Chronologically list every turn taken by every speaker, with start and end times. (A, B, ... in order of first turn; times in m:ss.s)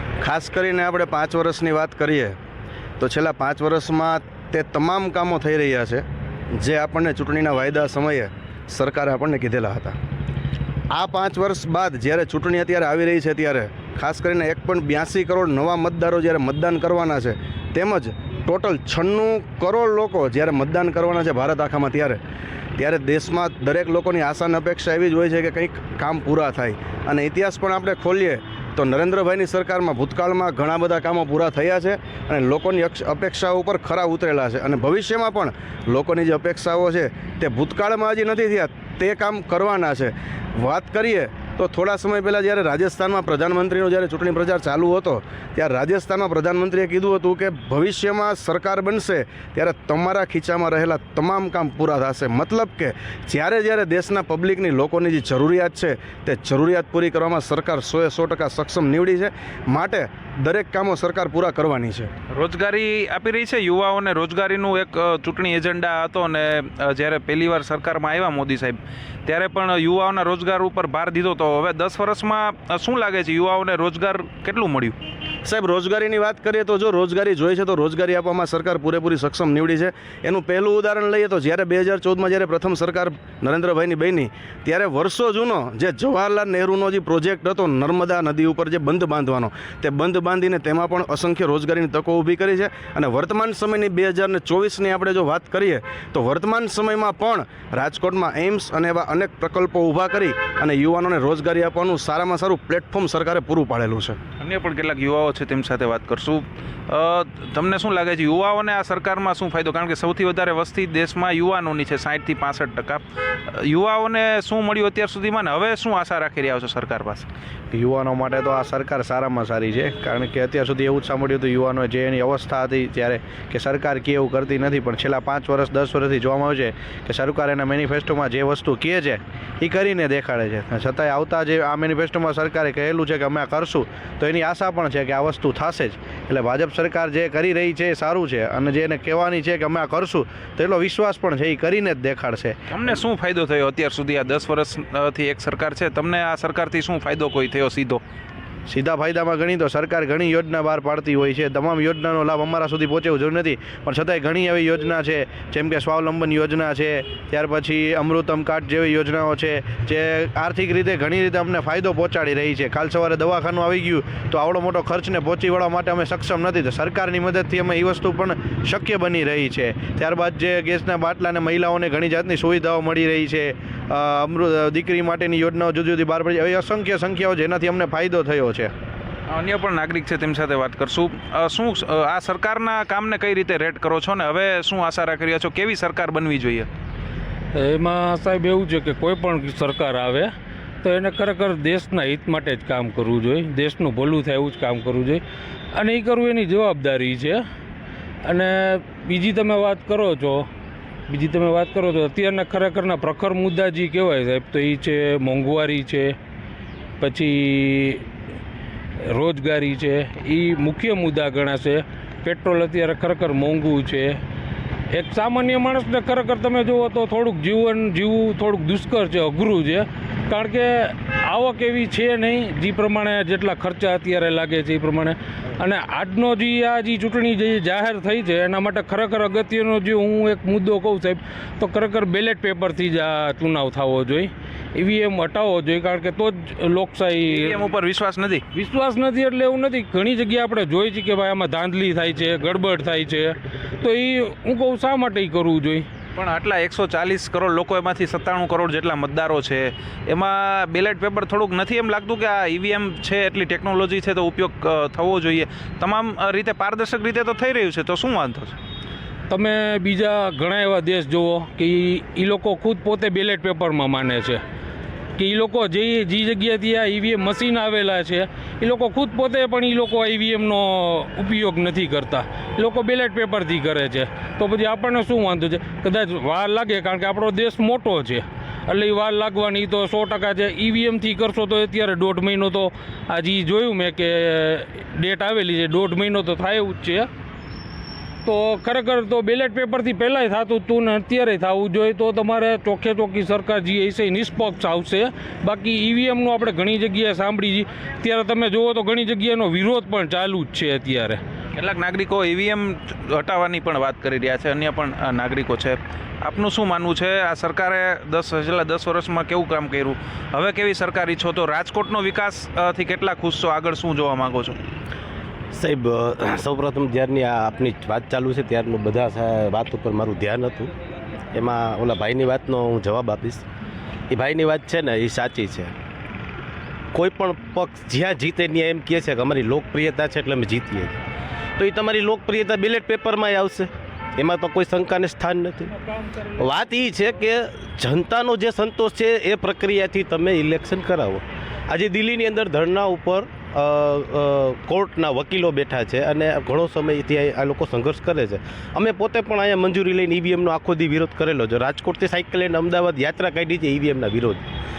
0:00.2-0:02.4 A
0:03.0-0:06.0 A
0:06.6-0:10.0 A
0:10.9-0:22.2 A
0:22.8-1:02.1 A
1:02.3-1:15.0 B
1:15.4-1:44.2 A
1:44.4-1:57.3 B
1:57.7-2:22.6 C
2:22.7-2:28.0 B
2:28.7-2:58.7 C
2:59.3-3:06.7 B
3:07.5-3:10.3 D
3:10.8-3:15.2 D
3:15.7-3:17.4 D
3:18.2-3:20.5 D
3:21.1-3:26.2 D
3:27.0-3:28.0 D
3:29.0-3:34.2 D
3:34.9-3:57.6 D
3:57.2-3:58.4 B
3:58.5-4:05.9 D
4:06.2-4:18.6 B
4:19.3-4:24.4 D
4:25.2-4:47.1 D
4:48.2-5:01.2 D
5:01.5-5:14.6 B
5:15.5-5:20.7 E
5:21.3-5:23.4 E
5:24.1-5:25.7 E
5:26.9-5:31.0 E
5:31.6-5:35.7 E
5:36.3-5:54.4 E